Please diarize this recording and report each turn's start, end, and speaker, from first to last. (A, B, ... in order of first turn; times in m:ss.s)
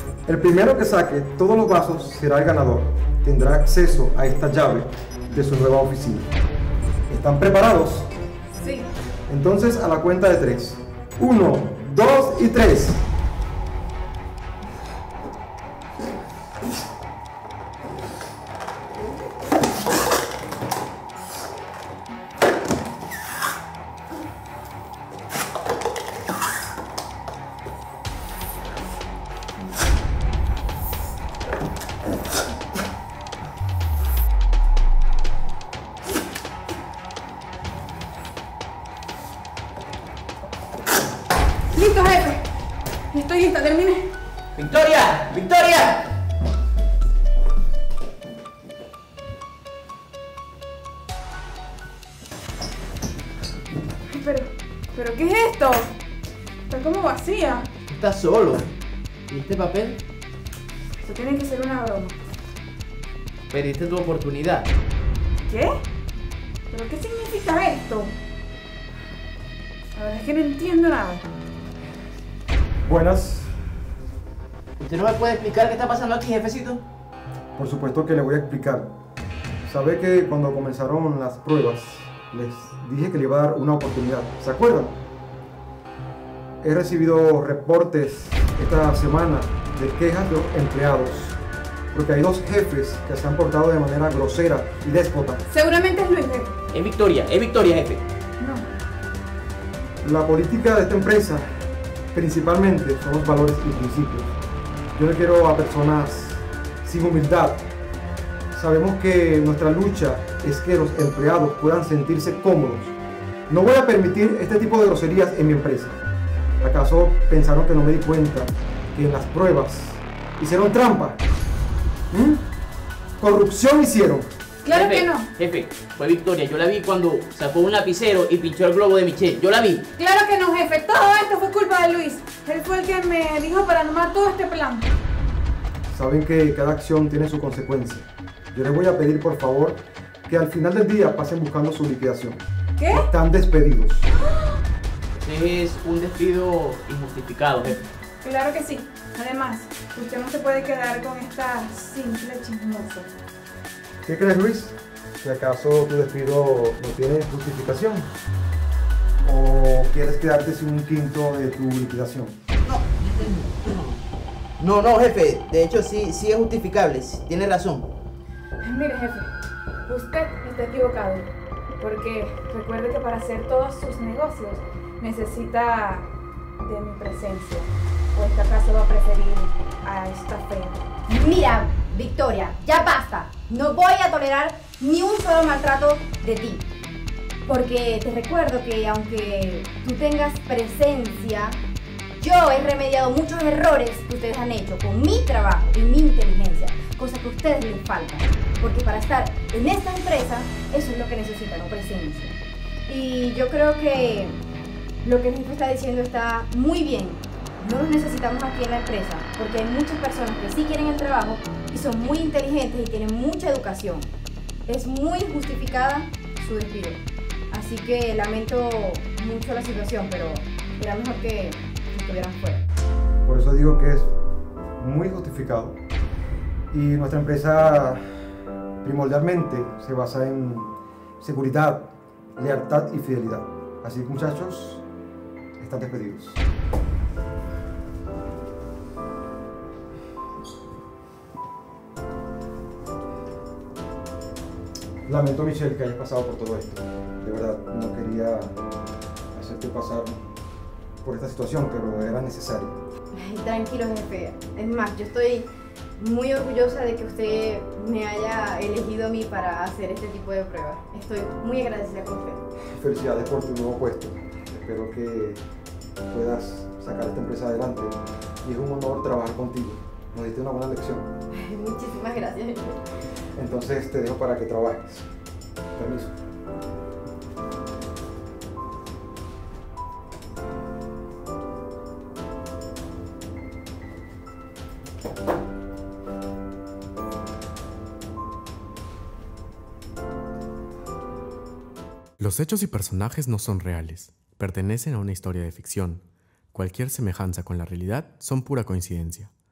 0:00.2-0:06.3 A
0:07.1-0:08.1 A
0:08.6-0:08.8 B
0:09.3-0:13.0 A
0:41.7-0:42.5 C
0:43.1-0:44.1 C
0:44.5-0:46.1 D
0:54.1-0:55.9 C
0:56.7-0:57.7 C
0:57.9-0:58.7 D
0:59.3-1:00.0 D
1:01.0-1:02.2 C
1:03.5-1:04.7 D
1:05.4-1:05.8 C
1:06.7-1:08.1 C
1:10.0-1:11.2 C
1:12.8-1:13.5 A
1:14.8-1:16.8 D
1:17.6-1:18.9 A
1:19.6-1:25.0 A
1:26.6-1:31.4 A
1:31.9-1:35.4 A
1:35.5-1:36.6 C
1:36.7-1:38.0 D
1:38.4-1:38.7 C
1:40.0-1:41.4 A
1:42.1-1:44.3 A
1:44.9-1:47.6 A
1:48.5-1:53.0 A
1:53.5-1:56.0 A
1:56.6-2:01.2 A
2:02.1-2:02.4 A
2:03.2-2:04.3 A
2:04.6-2:05.3 C
2:04.7-2:09.8 D
2:10.0-2:14.9 C
2:15.9-2:24.1 A
2:22.8-2:23.1 C
2:25.2-2:27.8 D
2:28.2-2:33.1 C
2:34.0-2:38.1 A
2:39.2-2:42.3 A
2:42.6-2:44.0 D
2:44.6-2:47.9 D
2:48.6-2:49.3 C
2:49.9-3:00.8 C
3:01.1-3:06.6 B
3:07.4-3:11.6 B
3:12.2-3:24.4 B
3:25.0-3:34.1 B
3:34.7-3:42.6 B
3:43.2-3:44.1 A
3:44.8-3:45.8 A
3:46.7-3:48.0 A
3:48.8-3:54.8 A
3:55.6-3:56.4 A
4:05.0-4:08.6 A
4:09.3-4:10.2 A
4:11.0-4:12.8 A
4:13.1-4:22.4 B
4:22.8-4:25.4 A
4:26.1-4:31.1 A
4:31.3-4:32.8 B
4:33.3-4:35.1 A
4:35.7-4:36.1 A
4:52.2-4:59.3 E